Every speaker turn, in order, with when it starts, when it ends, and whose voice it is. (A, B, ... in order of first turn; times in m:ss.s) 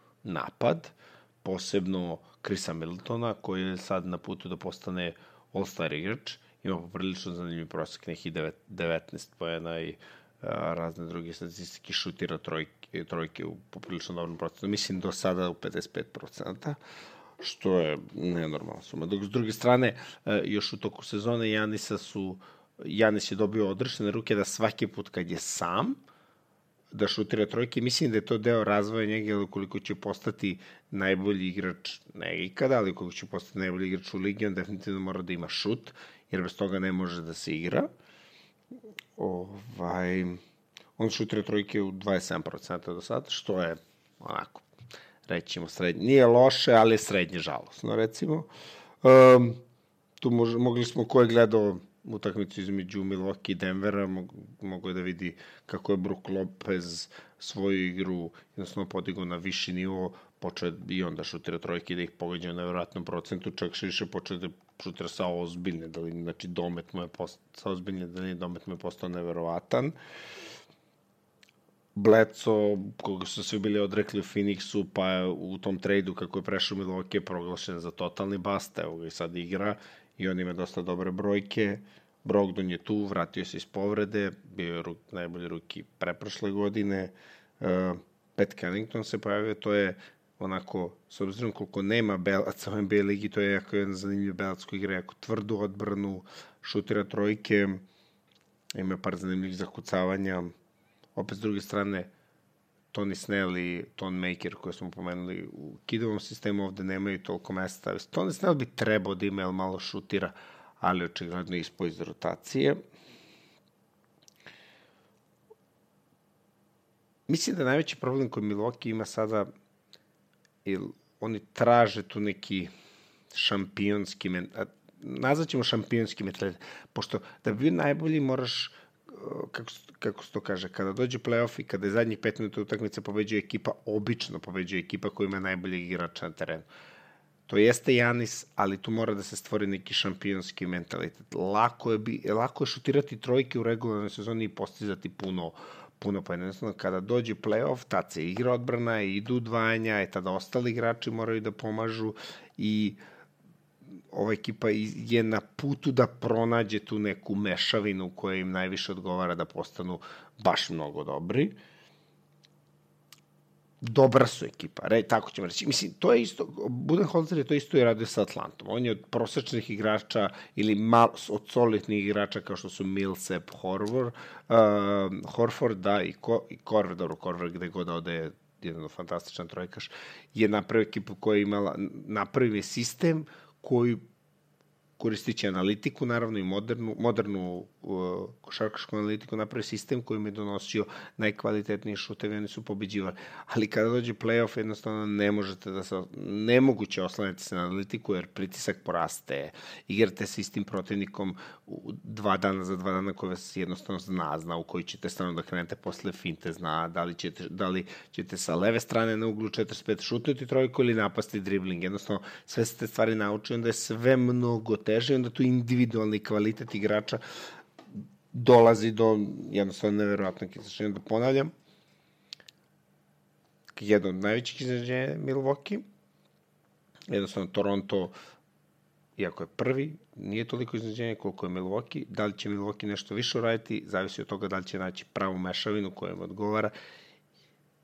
0:00.2-0:16.8 A
0:17.4-0:26.0 A
0:26.9-0:37.9 A
0:39.2-0:40.4 A
0:41.0-0:44.7 A
0:45.3-0:48.5 A
0:49.0-0:49.6 A
0:50.2-1:10.0 A
1:12.0-1:37.8 A
1:38.8-1:40.5 A
1:41.2-1:42.1 A
1:42.9-1:52.8 A
1:57.3-1:59.5 A
2:00.6-2:02.7 A
2:03.3-2:16.7 A
2:17.5-2:33.0 A
2:34.1-2:41.6 A
2:43.8-3:04.0 A
3:05.0-3:37.2 A
3:38.3-3:41.5 A
3:43.8-3:45.8 A
3:47.1-3:48.2 A
3:49.2-3:56.7 A